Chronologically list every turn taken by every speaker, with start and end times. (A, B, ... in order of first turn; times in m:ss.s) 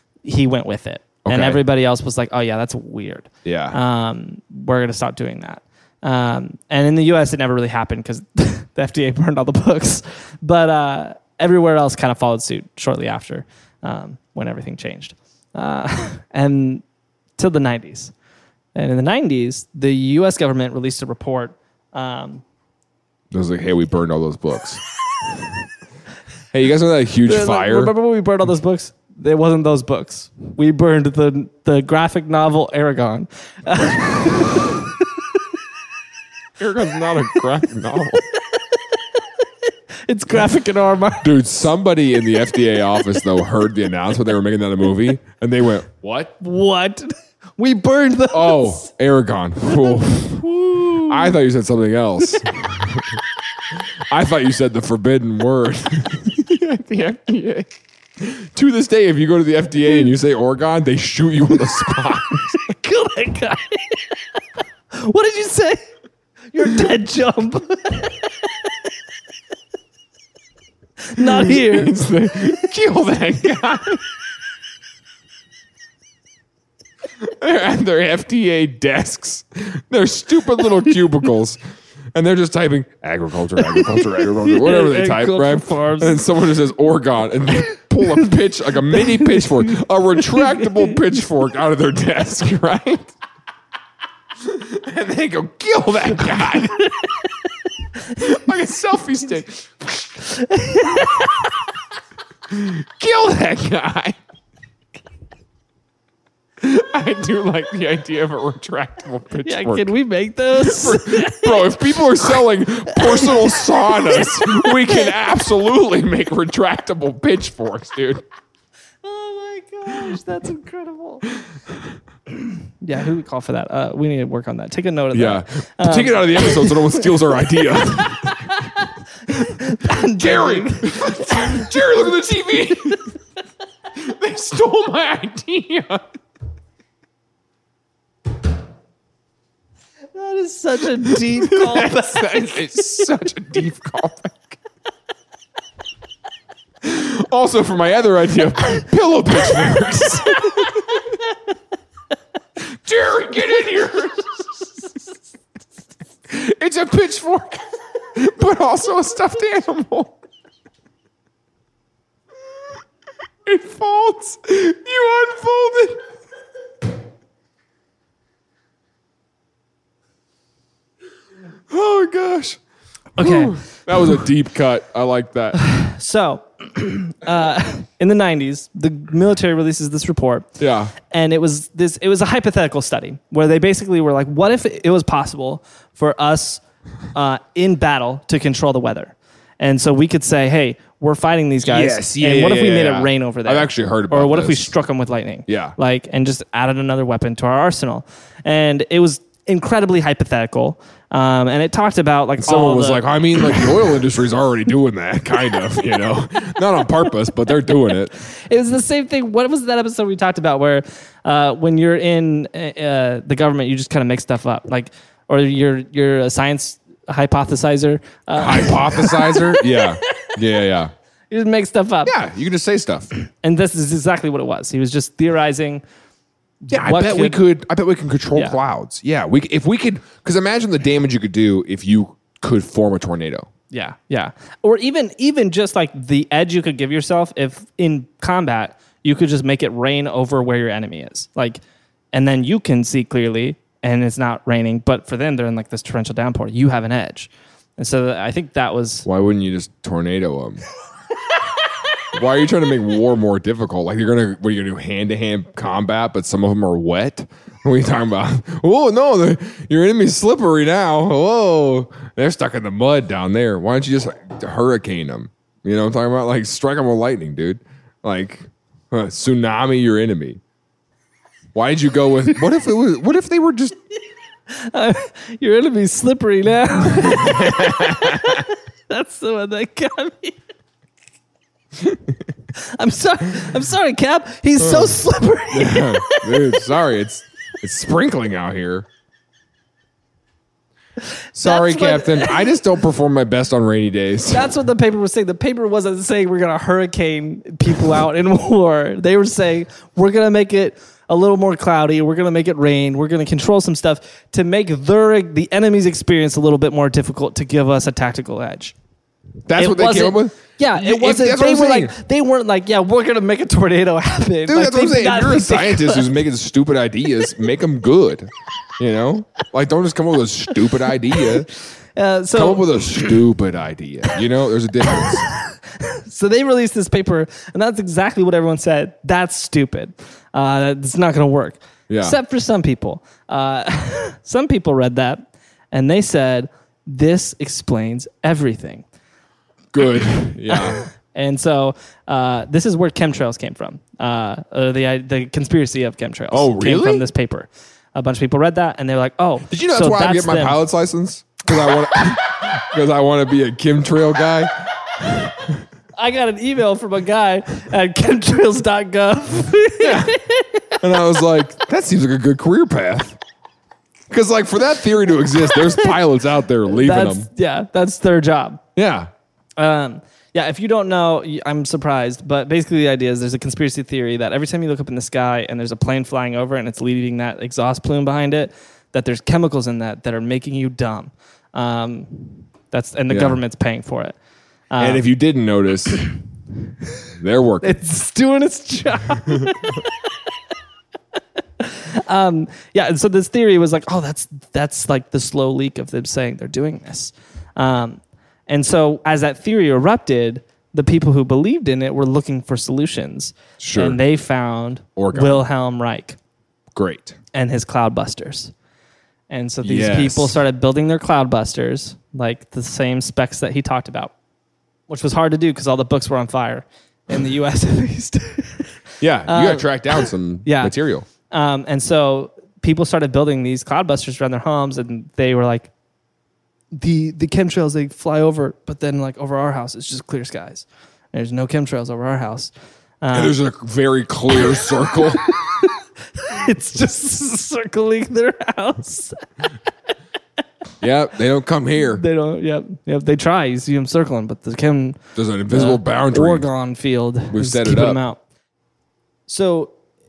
0:00.2-0:16.8 A
0:01.2-0:01.6 B
0:03.4-0:03.8 B
0:17.4-0:18.1 A
0:18.8-0:22.4 A
0:23.3-0:24.8 B
0:26.5-0:27.9 B
0:27.3-0:35.4 A
0:36.6-0:38.2 B
0:38.5-0:39.0 A
0:40.1-0:41.3 A
0:41.2-0:46.4 B
0:46.4-0:48.9 A
0:48.3-0:53.2 B
0:49.8-0:51.4 A
0:54.1-1:02.6 B
1:02.5-1:04.0 A
1:04.9-1:05.8 A
1:06.5-1:08.7 A
1:11.0-1:12.0 A
1:11.2-1:14.0 B
1:17.2-1:21.6 B
1:22.1-1:33.1 B
1:23.8-1:26.3 A
1:28.9-1:29.8 A
1:30.4-1:30.7 A
1:34.4-1:36.9 B
1:38.2-1:39.9 B
1:40.2-1:41.6 A
1:42.5-1:44.2 B
1:46.6-1:49.9 B
1:49.4-1:51.9 A
1:50.6-1:58.2 B
1:53.0-1:55.2 A
1:59.0-2:01.3 A
2:02.4-2:07.4 A
2:05.1-2:08.5 B
2:08.5-2:11.7 A
2:10.1-2:13.1 B
2:14.0-2:16.0 B
2:20.2-2:22.6 A
2:21.0-2:24.6 B
2:26.8-2:31.0 B
2:32.6-2:34.4 B
2:36.3-2:37.6 B
2:38.2-2:40.2 B
2:43.5-2:46.0 B
2:51.7-2:52.6 B
2:53.2-2:53.6 A
2:53.2-2:55.6 B
2:55.6-3:06.6 A
3:00.6-3:00.9 B
3:07.1-3:23.0 A
3:11.6-3:14.7 B
3:15.5-3:15.8 B
3:22.4-3:28.2 B
3:28.2-3:40.3 A
3:38.4-3:40.9 B
3:41.3-3:42.1 A
3:42.1-3:43.1 B
3:43.4-3:45.8 A
3:46.6-3:47.4 A
3:46.7-3:53.5 B
3:53.7-4:01.6 A
4:02.1-4:09.1 A
4:09.1-4:10.6 B
4:12.1-4:30.4 B
4:31.6-4:33.8 B
4:34.5-4:40.4 A
4:36.9-4:38.4 B
4:42.6-4:46.6 A
4:44.6-4:45.0 B
4:45.5-4:48.9 B
4:51.4-4:54.5 B
4:51.4-4:52.6 A
4:54.3-5:08.8 A
5:09.5-5:11.9 B
5:09.6-5:16.1 A
5:14.5-5:21.5 B
5:22.0-5:23.1 A
5:22.3-5:25.3 B
5:25.8-5:38.8 A
5:31.9-5:32.2 B
5:39.7-5:40.8 B
5:40.5-5:50.6 A
5:46.3-5:47.1 B
5:49.5-5:55.6 B
5:56.0-6:00.8 A
5:59.8-6:00.2 B
6:00.8-6:03.2 B
6:04.1-6:07.3 B
6:05.5-6:06.0 A
6:06.7-6:08.6 A
6:08.8-6:09.1 B
6:09.6-6:24.2 A
6:23.1-6:23.4 B
6:24.7-6:25.0 A
6:24.8-6:26.0 B
6:27.2-6:27.8 B
6:27.6-6:29.9 A
6:31.6-6:46.2 A
6:43.6-6:44.0 B
6:45.0-6:45.4 B
6:46.8-6:47.2 B
6:47.3-6:48.5 A
6:49.3-6:54.1 A
6:49.6-6:50.4 B
6:54.9-7:00.7 A
6:59.0-7:01.1 B
7:01.3-7:05.7 A
7:06.7-7:13.4 A
7:13.1-7:15.3 B
7:15.5-7:19.2 A
7:20.8-7:22.0 B
7:21.9-7:28.2 A
7:25.2-7:26.5 B
7:27.3-7:28.0 B
7:29.3-7:29.7 A